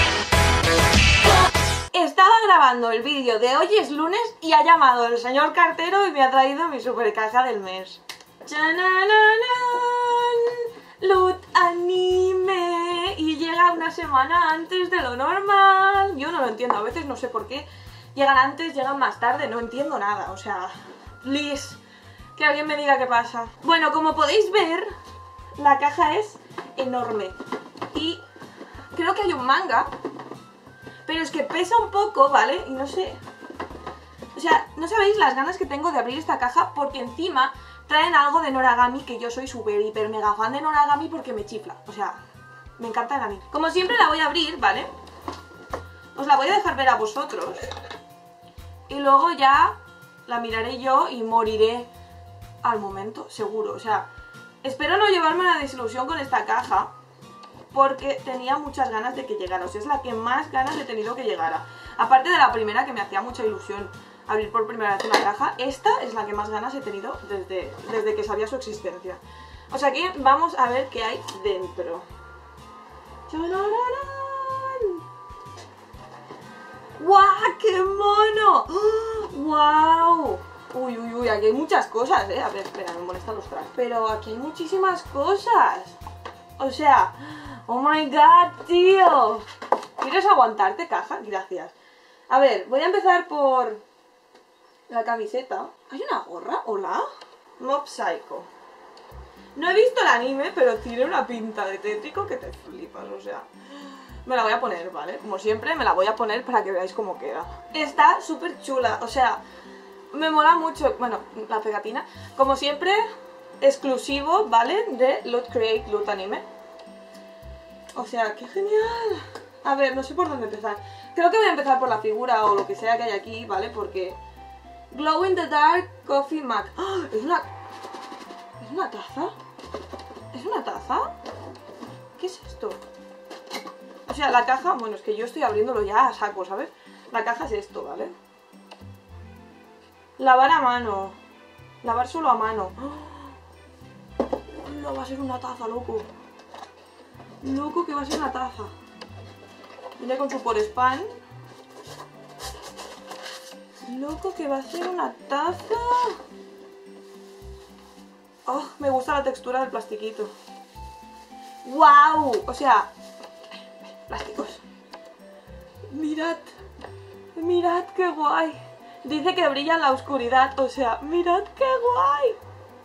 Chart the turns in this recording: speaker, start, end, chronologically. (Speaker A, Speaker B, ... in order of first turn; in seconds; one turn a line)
Speaker A: 1.9-21.8
Speaker A: 22.4-24.9
Speaker A: 25.6-27.4
Speaker A: 27.9-28.2
Speaker A: 28.9-29.9
Speaker A: 31.0-33.2
Speaker A: 34.3-42.2
Speaker A: 42.8-44.9
Speaker A: 46.1-47.7
Speaker A: 48.9-51.9
Speaker A: 52.6-54.1
Speaker A: 54.6-56.9
Speaker A: 57.7-72.1
Speaker A: 73.3-75.0
Speaker A: 77.0-86.0
Speaker A: 86.6-89.5
Speaker A: 90.0-91.7
Speaker A: 92.3-93.8
Speaker A: 94.9-97.0
Speaker A: 97.6-98.5
Speaker A: 99.5-109.4
Speaker A: 110.1-113.1
Speaker A: 113.6-116.4
Speaker A: 117.9-124.2
Speaker A: 124.9-127.5
Speaker A: 128.6-129.3
Speaker A: 130.3-131.1
Speaker A: 132.2-132.8
Speaker A: 134.1-138.1
Speaker A: 140.2-141.2
Speaker A: 141.8-143.3
Speaker A: 144.5-146.1
Speaker A: 147.4-148.7
Speaker A: 150.0-151.1
Speaker A: 153.8-156.2
Speaker A: 158.4-160.3
Speaker A: 161.6-162.9
Speaker A: 164.1-164.6
Speaker A: 165.9-166.5
Speaker A: 167.3-172.4